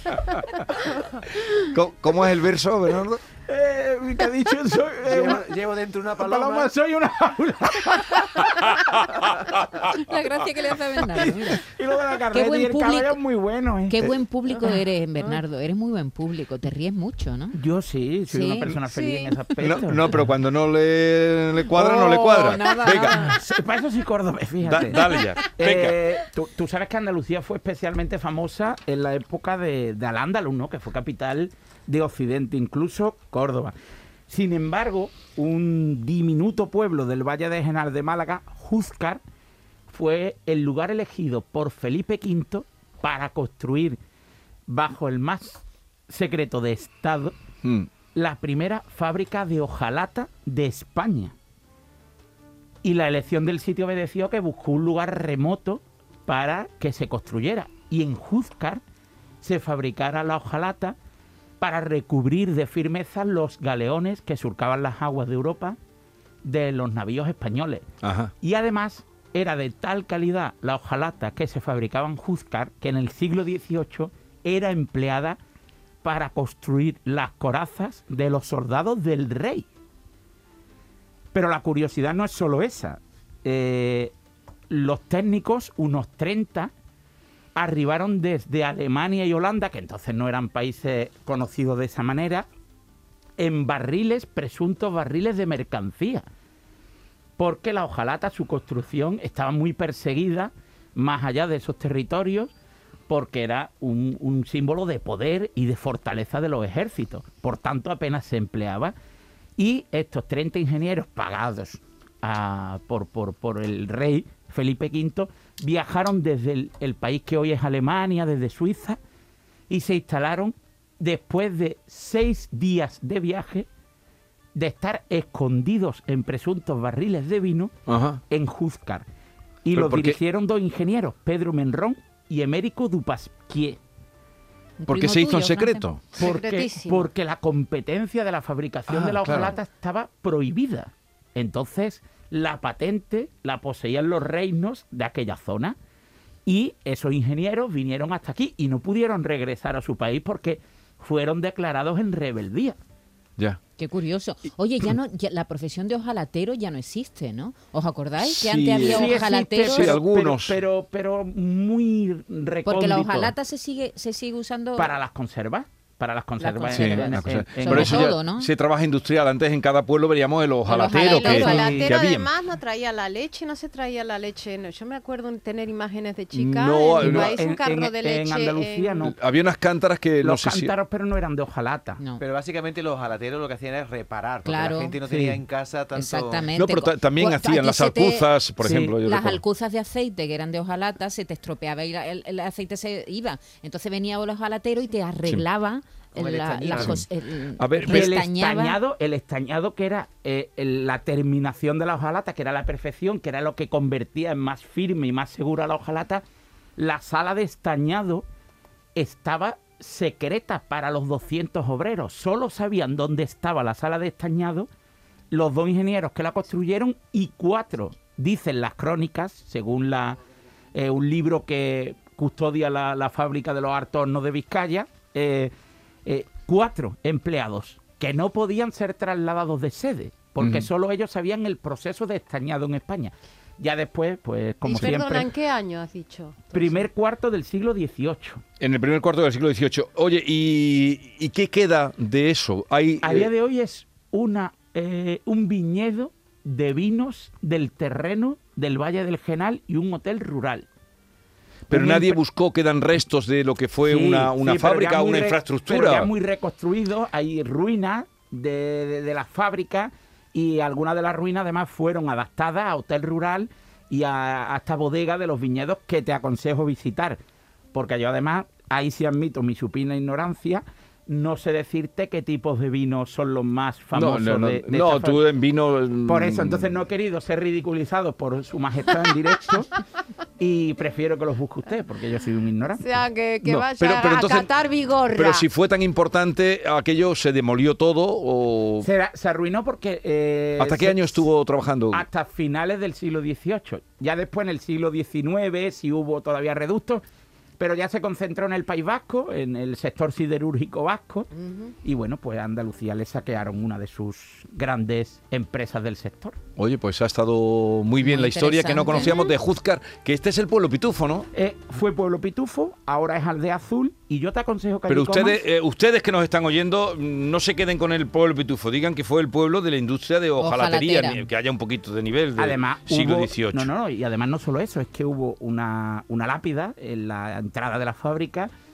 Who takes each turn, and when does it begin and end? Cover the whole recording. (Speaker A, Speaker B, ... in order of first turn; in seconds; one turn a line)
Speaker A: 1.7-3.2
Speaker B: 3.5-5.6
Speaker C: 5.1-6.7
Speaker B: 6.2-8.7
Speaker D: 9.8-11.7
Speaker B: 11.2-14.1
Speaker D: 12.3-13.2
Speaker D: 13.9-17.6
Speaker B: 17.5-20.2
Speaker D: 18.3-18.7
Speaker E: 18.9-19.3
Speaker A: 19.6-23.3
Speaker D: 21.7-23.4
Speaker B: 23.1-33.8
Speaker A: 24.6-26.0
Speaker B: 34.3-39.2
Speaker B: 39.9-44.0
Speaker B: 44.7-47.4
Speaker A: 47.6-47.9
Speaker B: 48.1-51.4
Speaker B: 52.8-58.8
Speaker B: 59.4-61.0
Speaker B: 61.6-65.8
Speaker B: 66.4-67.8
Speaker A: 68.0-68.3
Speaker B: 68.4-75.4
Speaker B: 76.0-79.7
Speaker B: 81.3-84.1
Speaker B: 84.7-86.7
Speaker B: 87.5-92.5
Speaker B: 93.4-96.2
Speaker B: 97.4-102.5
Speaker B: 103.1-109.0
Speaker B: 109.6-119.0
Speaker B: 119.7-123.7
Speaker B: 124.5-127.7
Speaker A: 127.9-128.2
Speaker B: 128.3-129.1
Speaker B: 129.6-133.8
Speaker A: 129.7-130.2
Speaker D: 134.8-135.9
Speaker A: 134.9-136.1
Speaker E: 136.2-137.1
Speaker B: 136.2-145.8
Speaker A: 138.9-139.6
Speaker B: 146.4-152.8
Speaker D: 153.8-160.0
Speaker A: 158.2-160.6
Speaker B: 158.8-163.3
Speaker D: 162.7-164.9
Speaker B: 164.8-168.2
Speaker D: 166.4-168.5
Speaker A: 166.7-172.3
Speaker D: 170.7-171.8
Speaker E: 170.9-179.1
Speaker B: 171.3-171.9
Speaker A: 176.3-177.3
Speaker B: 177.0-179.2
Speaker A: 179.0-180.7
Speaker B: 180.2-182.0
Speaker C: 182.2-186.5
Speaker D: 184.4-185.0
Speaker B: 185.1-185.4
Speaker D: 185.9-198.8
Speaker A: 186.6-189.4
Speaker B: 188.6-189.0
Speaker C: 196.2-197.0
Speaker A: 197.6-198.1
Speaker B: 197.8-206.2
Speaker B: 206.8-208.3
Speaker B: 208.9-214.7
Speaker B: 215.3-220.2
Speaker B: 220.7-225.5
Speaker B: 226.1-235.3
Speaker A: 230.4-230.7
Speaker E: 234.7-236.5
Speaker B: 236.5-238.4
Speaker A: 238.6-243.3
Speaker B: 243.0-250.7
Speaker A: 251.7-256.1
Speaker B: 251.7-252.2
Speaker B: 253.8-267.2
Speaker B: 267.7-275.2
Speaker A: 273.9-276.8
Speaker B: 276.1-279.8
Speaker B: 280.4-283.6
Speaker E: 282.8-285.5
Speaker A: 283.6-284.5
Speaker A: 285.1-288.9
Speaker B: 288.8-291.3
Speaker A: 290.6-292.1
Speaker B: 291.9-297.0
Speaker B: 297.6-301.3
Speaker B: 301.8-306.4
Speaker A: 306.6-311.3
Speaker D: 308.0-309.3
Speaker B: 311.3-315.4
Speaker A: 314.9-323.7
Speaker D: 320.4-321.3
Speaker B: 322.4-328.5